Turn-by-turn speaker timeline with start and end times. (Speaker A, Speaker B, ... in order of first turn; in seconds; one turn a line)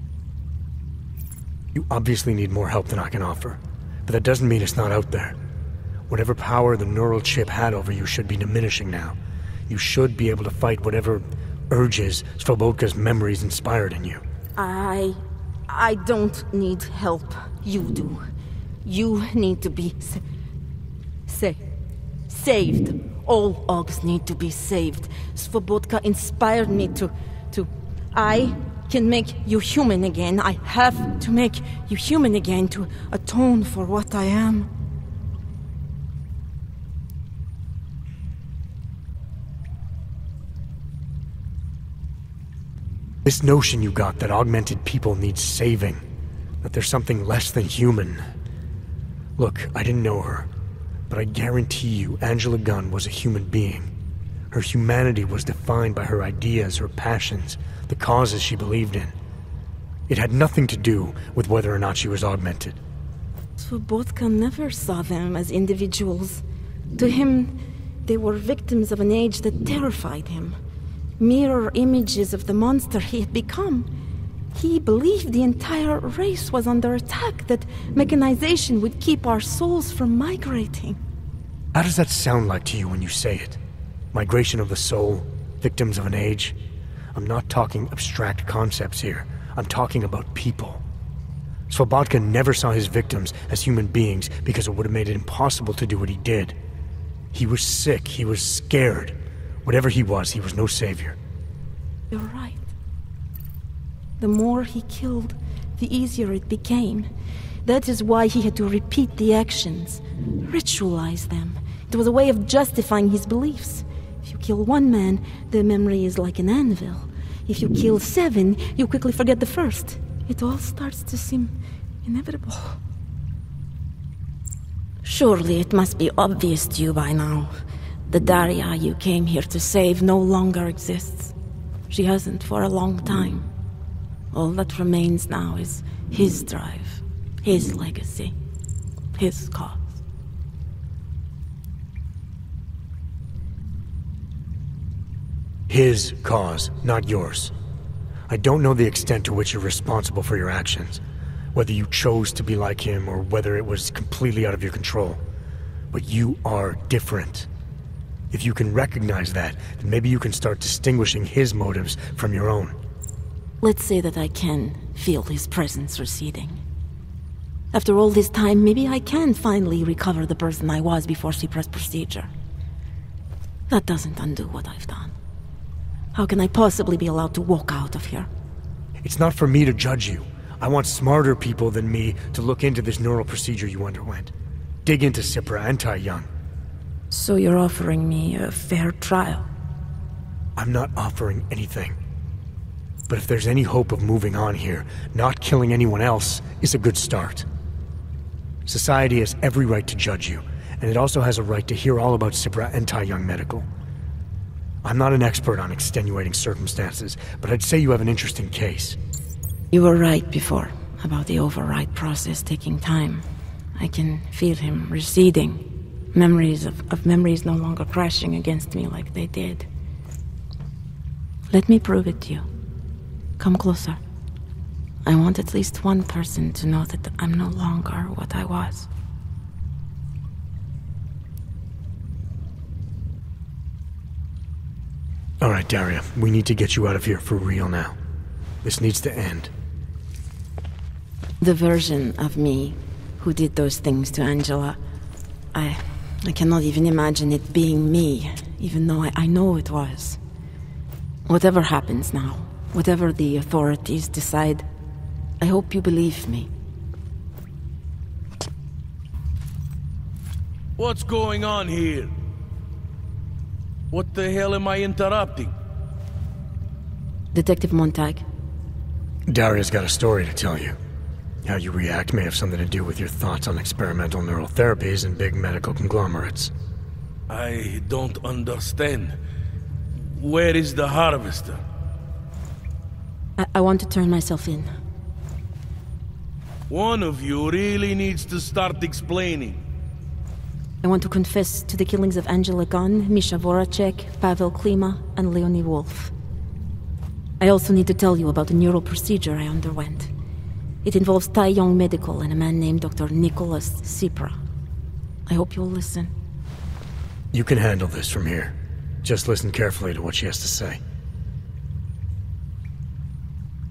Speaker A: 1.7-5.4
Speaker A: 6.1-9.2
Speaker A: 9.7-14.2
Speaker B: 14.6-18.2
Speaker B: 18.9-20.2
Speaker B: 21.3-21.6
Speaker B: 22.3-34.7
Speaker A: 43.2-46.0
Speaker A: 46.6-48.2
Speaker A: 49.4-50.5
Speaker A: 51.1-53.9
Speaker A: 54.5-59.1
Speaker A: 60.1-62.8
Speaker B: 63.6-66.4
Speaker B: 67.0-70.6
Speaker B: 71.2-73.9
Speaker B: 74.5-81.0
Speaker A: 81.7-83.6
Speaker A: 84.1-86.6
Speaker A: 87.2-90.8
Speaker A: 91.7-96.6
Speaker A: 97.3-101.2
Speaker B: 102.1-102.7
Speaker B: 104.2-107.1
Speaker B: 107.7-122.8
Speaker B: 125.0-127.5
Speaker B: 128.1-131.3
Speaker B: 131.9-133.5
Speaker B: 134.3-138.3
Speaker B: 139.2-140.0
Speaker A: 145.7-147.5
Speaker A: 148.3-151.0
Speaker A: 151.5-155.2
Speaker A: 155.9-157.5
Speaker A: 158.3-162.8
Speaker B: 163.6-166.6
Speaker B: 167.7-172.3
Speaker B: 173.7-175.1
Speaker B: 176.2-178.3
Speaker A: 179.0-184.3
Speaker A: 184.8-186.3
Speaker B: 187.1-189.5
Speaker A: 190.6-192.0
Speaker A: 193.1-197.5
Speaker A: 198.7-203.7
Speaker A: 204.8-209.0
Speaker B: 209.7-213.3
Speaker B: 213.8-219.7
Speaker B: 221.5-222.4
Speaker B: 223.4-224.0
Speaker B: 225.1-228.9
Speaker A: 235.4-238.0
Speaker A: 238.6-239.5
Speaker B: 241.4-244.8
Speaker B: 245.5-250.2
Speaker B: 251.3-254.7
Speaker B: 255.4-256.5
Speaker C: 260.8-262.1
Speaker C: 263.9-265.5
Speaker B: 267.3-268.2
Speaker A: 269.3-270.8
Speaker A: 271.4-276.5
Speaker C: 277.3-279.1
Speaker C: 280.1-281.6
Speaker B: 283.4-284.7
Speaker C: 286.7-289.6
Speaker B: 290.8-296.1
Speaker B: 297.4-300.1
Speaker B: 300.8-304.4
Speaker B: 305.3-306.1
Speaker A: 307.3-310.8